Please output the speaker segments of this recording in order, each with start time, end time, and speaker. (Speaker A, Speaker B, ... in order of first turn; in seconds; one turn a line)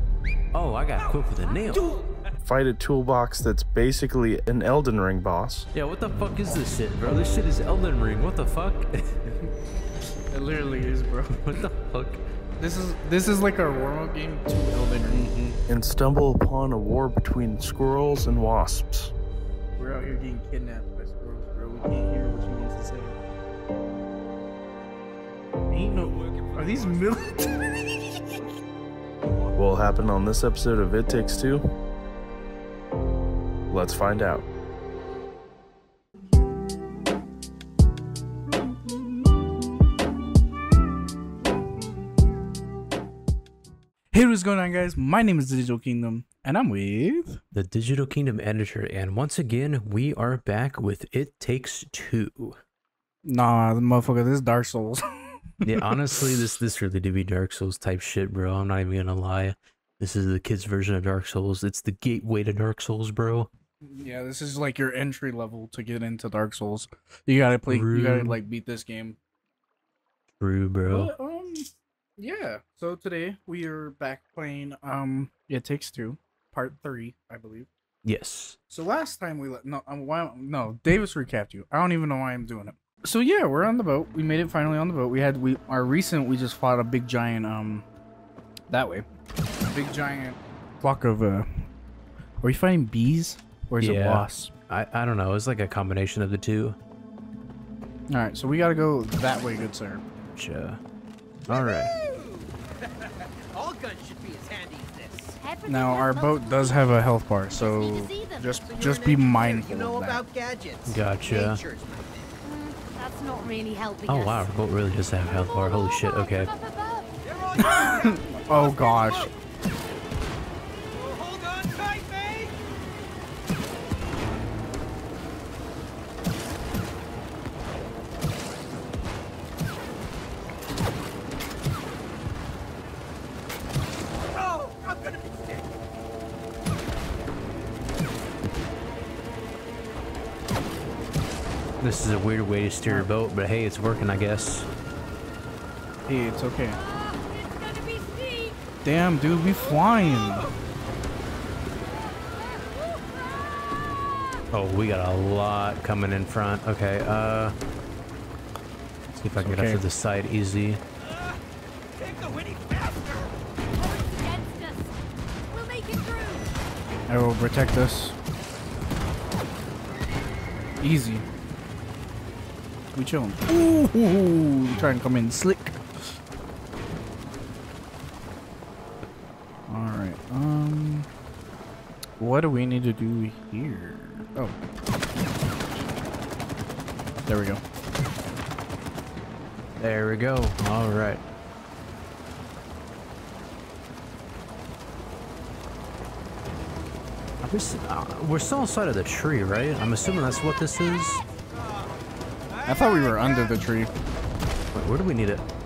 Speaker A: 0.5-1.9
Speaker B: 1.1-2.3
Speaker C: 2.4-5.7
Speaker A: 5.7-9.2
Speaker D: 10.3-11.5
Speaker A: 11.4-12.2
Speaker D: 12.6-15.6
Speaker C: 15.7-19.1
Speaker D: 19.8-23.2
Speaker D: 25.7-27.9
Speaker B: 26.0-27.6
Speaker C: 29.5-31.6
Speaker C: 33.7-34.5
Speaker D: 44.1-47.4
Speaker A: 47.5-52.6
Speaker D: 53.2-56.2
Speaker A: 55.6-63.5
Speaker D: 63.8-69.2
Speaker A: 67.7-68.4
Speaker A: 70.4-71.1
Speaker D: 70.9-77.7
Speaker A: 78.0-78.6
Speaker D: 78.7-87.9
Speaker D: 88.7-89.1
Speaker D: 89.7-91.7
Speaker D: 92.4-94.5
Speaker A: 93.8-96.8
Speaker D: 98.1-100.0
Speaker A: 100.4-100.8
Speaker A: 101.5-101.9
Speaker B: 101.5-105.4
Speaker E: 105.4-108.7
Speaker D: 105.7-110.2
Speaker B: 108.7-112.3
Speaker A: 110.9-111.6
Speaker E: 112.4-114.5
Speaker A: 114.1-116.5
Speaker E: 115.5-117.2
Speaker B: 117.2-119.3
Speaker D: 117.6-119.3
Speaker B: 120.9-122.6
Speaker B: 134.3-135.8
Speaker A: 141.8-144.7
Speaker D: 146.1-146.8
Speaker E: 146.7-148.6
Speaker D: 148.8-150.5
Speaker B: 150.2-150.6
Speaker E: 151.9-154.4
Speaker A: 154.5-157.6
Speaker D: 159.2-159.8
Speaker A: 159.2-160.8
Speaker B: 161.0-161.4
Speaker B: 161.9-163.3
Speaker E: 163.8-165.0
Speaker E: 165.5-166.5
Speaker D: 167.1-168.2
Speaker D: 170.8-171.3
Speaker D: 172.9-176.1
Speaker D: 179.7-181.1
Speaker D: 182.2-184.6
Speaker D: 187.3-187.6
Speaker A: 189.8-191.2
Speaker A: 197.4-201.2
Speaker B: 201.5-203.6
Speaker D: 202.7-203.9
Speaker A: 204.7-205.4